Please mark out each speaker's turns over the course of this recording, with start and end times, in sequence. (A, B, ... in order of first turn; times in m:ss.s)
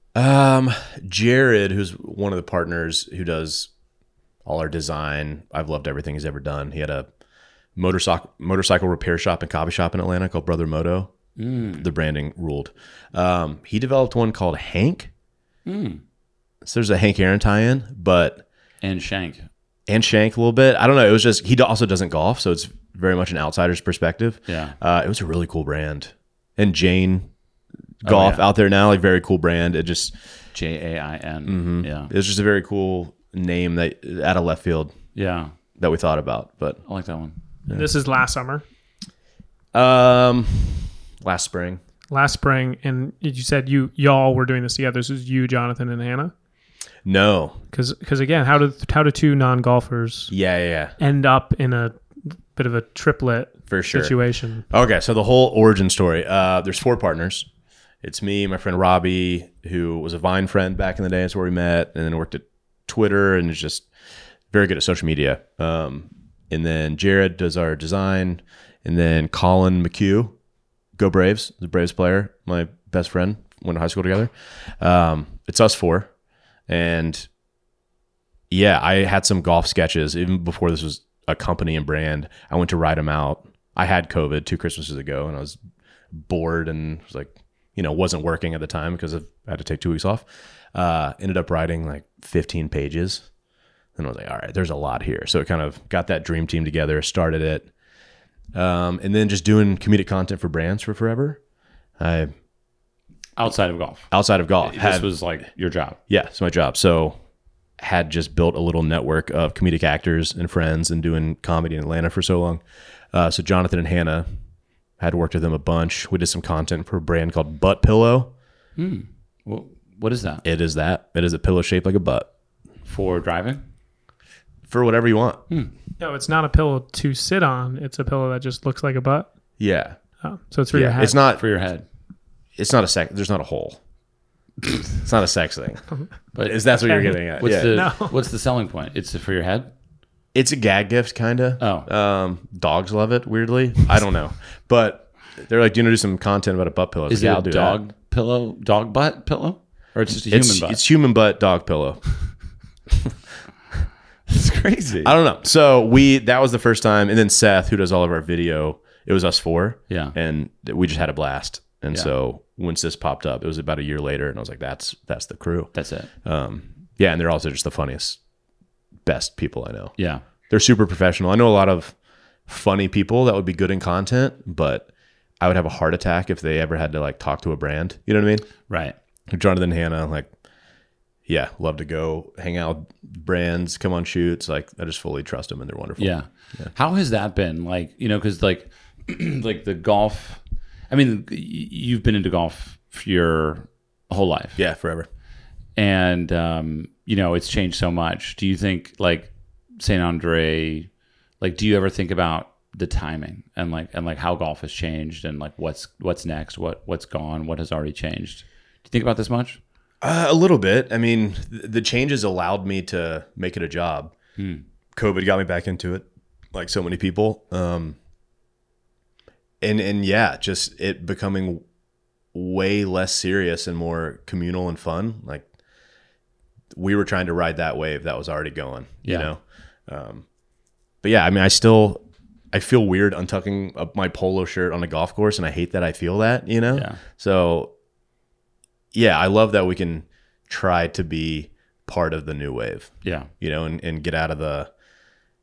0:00.2-0:03.7 A
0:04.4-0:07.1 A
0:07.8-0:11.1 A
0:11.4-0:11.9 B
0:11.8-0:15.1 A
0:15.7-0:16.0 B
0:16.6-0:18.4 A
0:18.8-0:19.5 B
0:19.9-0:27.3 A
0:24.5-0:24.8 B
0:28.0-0:30.1 A
0:28.0-0:28.5 B
0:30.5-0:32.1 B
0:31.5-0:34.9 A
0:35.2-0:35.5 B
0:35.8-0:36.8 A
0:36.9-0:37.4 B
0:37.7-0:38.6 C
0:39.7-0:41.8 A
0:42.1-0:46.3 C
0:47.0-0:47.6 A
0:47.7-0:50.3 C
0:50.3-0:51.0 A
0:51.0-0:52.0 C
0:52.6-0:54.6 C
0:53.7-0:54.2 A
0:54.7-0:57.5 A
0:58.0-1:03.9 A
1:04.5-1:10.4 A
1:11.0-1:16.1 A
1:16.7-1:17.3 A
1:18.5-1:25.6 A
1:26.1-1:33.3 A
1:34.0-1:37.7 A
1:38.5-1:41.4 A
1:42.0-1:42.3 A
1:43.4-1:44.1 B
1:44.1-1:45.1 A
1:44.6-1:46.0 B
1:46.1-1:47.2 A
1:47.8-1:52.6 A
1:53.1-1:54.3 A
1:55.0-1:58.3 A
1:58.8-2:00.4 B
2:00.4-2:02.3 A
2:02.9-2:03.6 B
2:04.7-2:05.4 A
2:06.0-2:09.3 C
2:09.6-2:10.0 A
2:10.2-2:11.2 C
2:10.7-2:11.4 A
2:11.4-2:11.8 B
2:12.6-2:13.8 A
2:15.0-2:15.8 A
2:16.3-2:19.7 B
2:16.4-2:17.8 A
2:16.9-2:18.2 C
2:20.3-2:27.8 A
2:21.6-2:21.9 B
2:27.1-2:30.8 B
2:30.3-2:32.0 A
2:34.3-2:35.1 B
2:35.0-2:45.7 A
2:39.9-2:40.2 B
2:45.8-2:46.1 B
2:46.2-2:48.2 A
2:49.0-2:49.9 A
2:50.0-2:50.2 B
2:50.5-2:52.0 A
2:52.5-2:54.9 A
2:55.4-2:58.5 A
2:58.7-2:59.0 B
2:59.3-3:00.3 A
3:01.3-3:06.7 A
3:06.0-3:14.6 B
3:14.6-3:15.1 A
3:15.8-3:20.9 B
3:21.4-3:29.6 B
3:30.0-3:34.1 A
3:34.4-3:34.6 B
3:35.0-3:38.0 A
3:39.6-3:41.6 A
3:42.3-3:45.5 A
3:46.7-3:50.2 A
3:49.0-3:49.3 B
3:51.0-3:57.7 A
3:56.7-3:57.0 B
3:58.9-4:04.7 A
4:03.0-4:03.3 B